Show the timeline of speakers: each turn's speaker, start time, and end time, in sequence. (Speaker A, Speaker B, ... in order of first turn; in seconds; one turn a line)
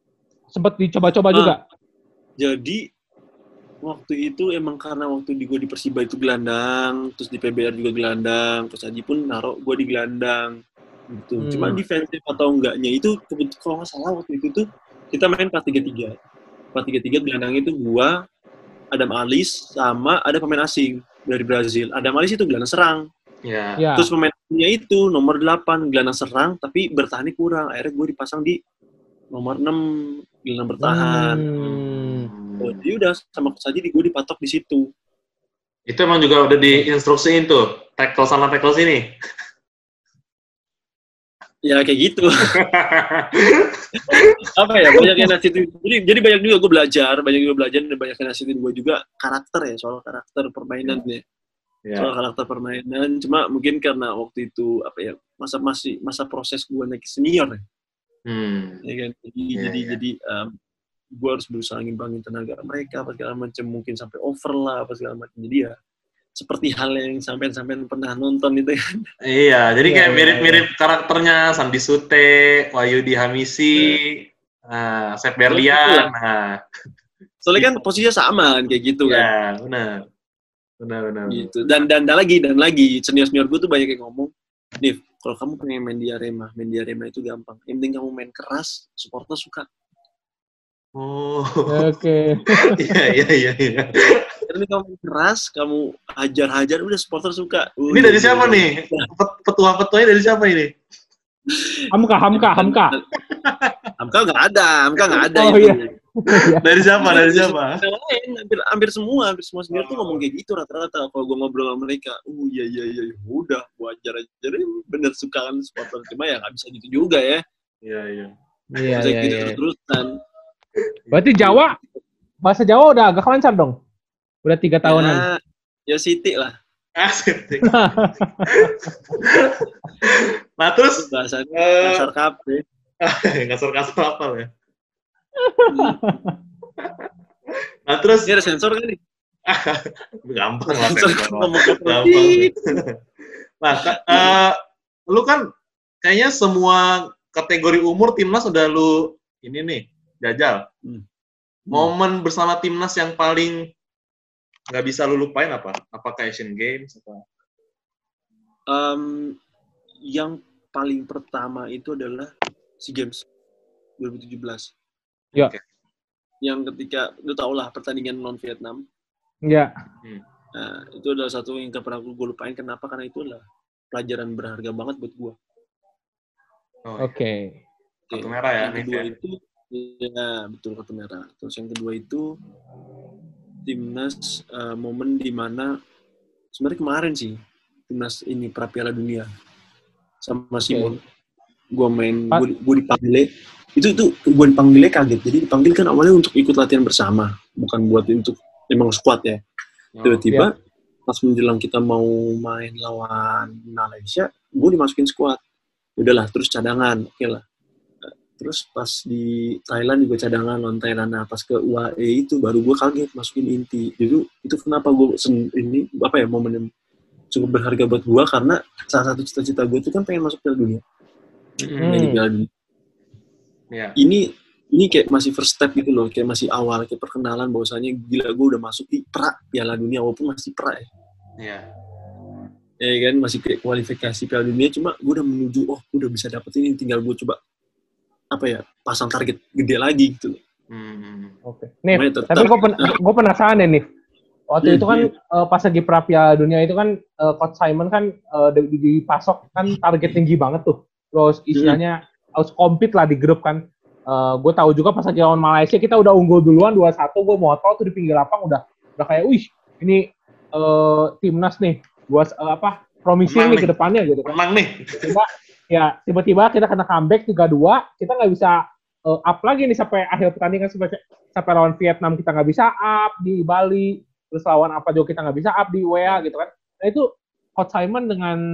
Speaker A: 0.5-1.6
Speaker B: 2.4-2.8
Speaker B: 3.8-10.5
Speaker B: 11.1-16.1
Speaker A: 11.4-11.8
Speaker B: 16.7-18.1
Speaker B: 18.9-23.0
Speaker C: 23.4-23.8
Speaker A: 23.8-24.1
Speaker B: 23.9-28.6
Speaker B: 29.3-29.8
Speaker B: 30.4-31.4
Speaker A: 30.8-32.3
Speaker C: 31.6-32.8
Speaker B: 32.6-34.9
Speaker C: 35.9-39.0
Speaker B: 41.7-42.5
Speaker C: 42.6-45.3
Speaker B: 44.1-51.2
Speaker C: 51.9-52.1
Speaker B: 52.0-57.6
Speaker C: 58.3-58.8
Speaker B: 58.8-60.5
Speaker C: 59.5-60.0
Speaker B: 61.1-65.7
Speaker B: 66.4-69.0
Speaker C: 69.2-76.6
Speaker A: 69.8-70.7
Speaker B: 75.5-76.1
Speaker B: 77.4-79.3
Speaker C: 79.1-80.0
Speaker C: 80.8-81.8
Speaker B: 81.3-84.3
Speaker B: 84.8-89.7
Speaker C: 91.0-92.0
Speaker A: 91.7-92.9
Speaker C: 92.5-94.4
Speaker B: 94.5-99.1
Speaker C: 97.9-100.7
Speaker B: 101.5-101.8
Speaker A: 101.9-102.9
Speaker B: 102.3-103.0
Speaker C: 103.3-103.9
Speaker B: 104.0-105.9
Speaker A: 105.2-106.7
Speaker C: 106.3-107.8
Speaker B: 107.0-117.4
Speaker C: 109.7-110.2
Speaker C: 117.8-118.3
Speaker A: 118.8-119.6
Speaker B: 118.9-120.1
Speaker C: 121.0-121.6
Speaker A: 121.1-121.8
Speaker A: 122.4-123.7
Speaker A: 124.4-125.2
Speaker B: 124.8-126.5
Speaker C: 127.0-132.1
Speaker A: 127.6-128.9
Speaker B: 130.9-132.6
Speaker C: 133.0-134.5
Speaker A: 135.4-136.3
Speaker B: 135.7-136.0
Speaker C: 136.8-137.1
Speaker C: 137.8-138.3
Speaker B: 138.2-139.0
Speaker C: 139.5-143.0
Speaker B: 140.7-142.5
Speaker C: 143.6-144.6
Speaker B: 143.7-144.4
Speaker C: 145.1-145.4
Speaker C: 146.0-150.6
Speaker C: 151.7-153.7
Speaker C: 154.7-157.2
Speaker B: 158.7-159.3
Speaker B: 160.1-163.2
Speaker B: 164.0-164.7
Speaker C: 165.3-165.6
Speaker B: 166.4-168.8
Speaker B: 170.6-175.3
Speaker C: 176.8-177.2
Speaker A: 177.0-177.5
Speaker B: 178.1-182.2
Speaker C: 178.1-179.1
Speaker B: 183.7-185.7
Speaker B: 186.5-187.3
Speaker B: 187.9-189.3
Speaker B: 190.2-191.0
Speaker B: 191.7-199.4
Speaker C: 199.9-200.2
Speaker B: 200.0-200.5
Speaker B: 201.1-205.4
Speaker B: 206.0-207.4
Speaker B: 208.3-216.7
Speaker B: 217.3-220.8
Speaker C: 221.6-221.9
Speaker B: 221.8-222.5
Speaker A: 221.8-222.2
Speaker B: 224.0-224.2
Speaker B: 224.7-230.9
Speaker C: 231.4-231.7
Speaker B: 232.8-237.4
Speaker B: 238.3-240.4
Speaker C: 240.7-241.3
Speaker A: 241.4-243.8
Speaker B: 241.9-242.9
Speaker A: 244.5-264.3
Speaker B: 244.6-245.1
Speaker C: 263.2-263.7
Speaker C: 264.2-265.1
Speaker A: 265.0-278.4